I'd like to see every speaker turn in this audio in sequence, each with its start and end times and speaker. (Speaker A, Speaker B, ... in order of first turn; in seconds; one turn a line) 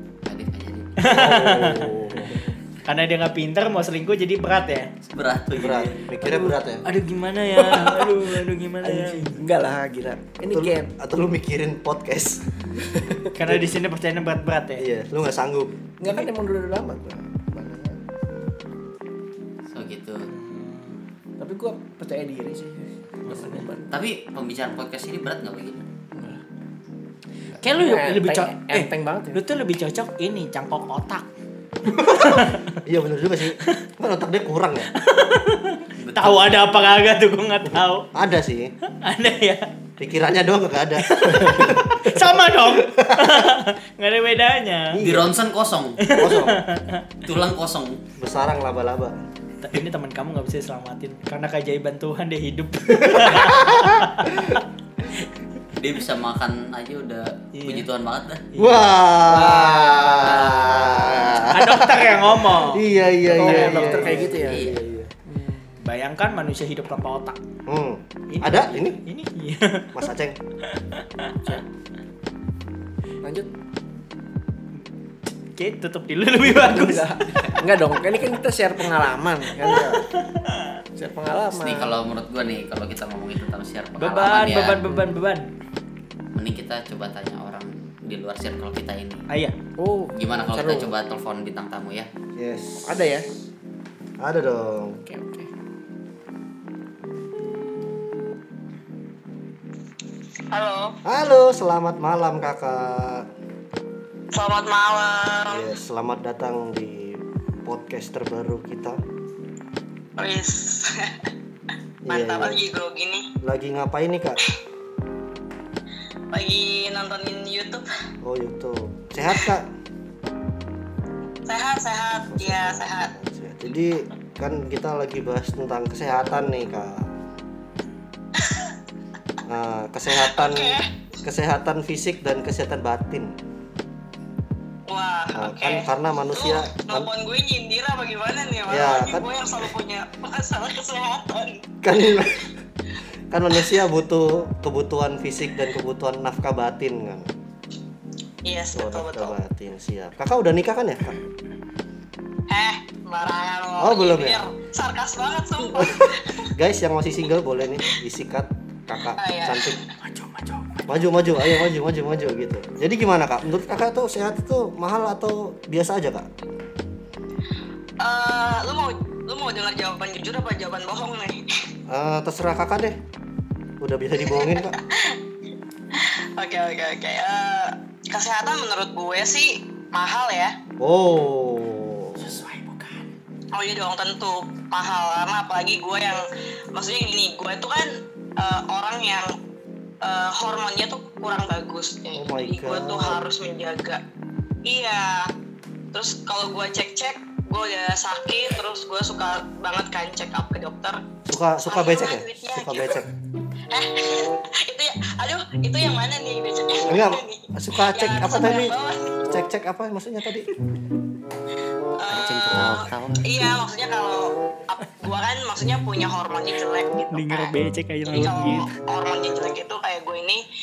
Speaker A: 0.2-1.0
Speaker B: 1.0-1.9
Speaker C: 1.1-2.4
Speaker B: 2.8-4.9
Speaker A: 5.0-6.0
Speaker C: 5.5-6.8
Speaker B: 6.2-9.4
Speaker D: 7.6-10.9
Speaker C: 10.5-12.5
Speaker D: 12.8-13.2
Speaker B: 13.3-14.8
Speaker C: 14.8-15.8
Speaker D: 16.0-18.0
Speaker A: 19.7-20.3
Speaker B: 20.3-20.9
Speaker D: 21.4-23.9
Speaker B: 23.2-23.6
Speaker A: 23.9-25.8
Speaker D: 26.1-26.4
Speaker B: 27.6-31.2
Speaker D: 27.7-29.4
Speaker C: 31.9-34.9
Speaker B: 32.0-32.7
Speaker B: 34.9-38.1
Speaker A: 36.0-36.5
Speaker C: 37.7-38.7
Speaker B: 39.0-39.7
Speaker C: 40.0-43.4
Speaker B: 41.0-45.0
Speaker C: 44.9-45.3
Speaker A: 45.0-46.0
Speaker B: 46.0-47.0
Speaker C: 46.1-46.6
Speaker A: 47.2-48.0
Speaker C: 48.2-49.2
Speaker B: 49.6-54.5
Speaker C: 53.0-54.4
Speaker A: 55.8-58.4
Speaker B: 57.5-57.9
Speaker C: 58.5-65.1
Speaker D: 59.3-60.9
Speaker B: 61.5-64.2
Speaker D: 63.3-64.6
Speaker A: 64.5-64.8
Speaker D: 65.2-65.8
Speaker B: 65.8-67.4
Speaker C: 67.7-69.0
Speaker B: 68.3-70.0
Speaker C: 69.9-70.4
Speaker B: 70.6-71.4
Speaker D: 73.2-73.5
Speaker B: 75.5-77.5
Speaker D: 76.4-79.9
Speaker C: 79.6-80.0
Speaker B: 79.9-80.8
Speaker D: 81.0-81.9
Speaker A: 81.5-84.8
Speaker B: 84.0-85.5
Speaker A: 86.3-89.2
Speaker B: 89.3-89.5
Speaker D: 89.8-90.9
Speaker A: 90.1-92.1
Speaker C: 92.3-93.0
Speaker D: 92.8-93.3
Speaker C: 94.2-95.0
Speaker D: 95.0-95.5
Speaker E: 100.5-101.0
Speaker C: 101.0-103.3
Speaker E: 104.3-105.7
Speaker C: 105.5-109.0
Speaker E: 110.2-111.2
Speaker C: 112.1-112.6
Speaker E: 112.1-113.3
Speaker C: 113.4-114.4
Speaker E: 116.3-117.8
Speaker C: 118.2-119.7
Speaker E: 121.5-123.1
Speaker C: 122.3-127.1
Speaker E: 128.4-128.8
Speaker C: 129.5-133.3
Speaker E: 130.1-130.9
Speaker E: 134.9-141.7
Speaker C: 135.3-137.1
Speaker C: 138.7-139.2
Speaker C: 141.8-142.5
Speaker C: 143.3-147.3
Speaker E: 148.4-149.3
Speaker C: 148.7-151.2
Speaker E: 152.5-156.5
Speaker C: 153.8-154.4
Speaker C: 155.7-159.8
Speaker E: 159.2-159.9
Speaker C: 160.9-166.3
Speaker E: 168.0-171.6
Speaker C: 171.9-173.0
Speaker C: 173.8-174.8
Speaker E: 174.2-175.2
Speaker E: 175.9-180.5
Speaker C: 180.8-182.4
Speaker D: 182.2-183.0
Speaker E: 183.5-186.2
Speaker E: 186.7-189.3
Speaker E: 190.0-194.0
Speaker C: 192.1-193.2
Speaker E: 194.7-195.3
Speaker E: 195.9-201.0
Speaker C: 201.2-203.1
Speaker E: 201.6-203.0
Speaker E: 203.7-209.2
Speaker C: 206.8-208.7
Speaker C: 209.3-210.5
Speaker E: 212.0-217.5
Speaker A: 212.1-213.4
Speaker B: 217.1-218.7
Speaker E: 218.1-220.4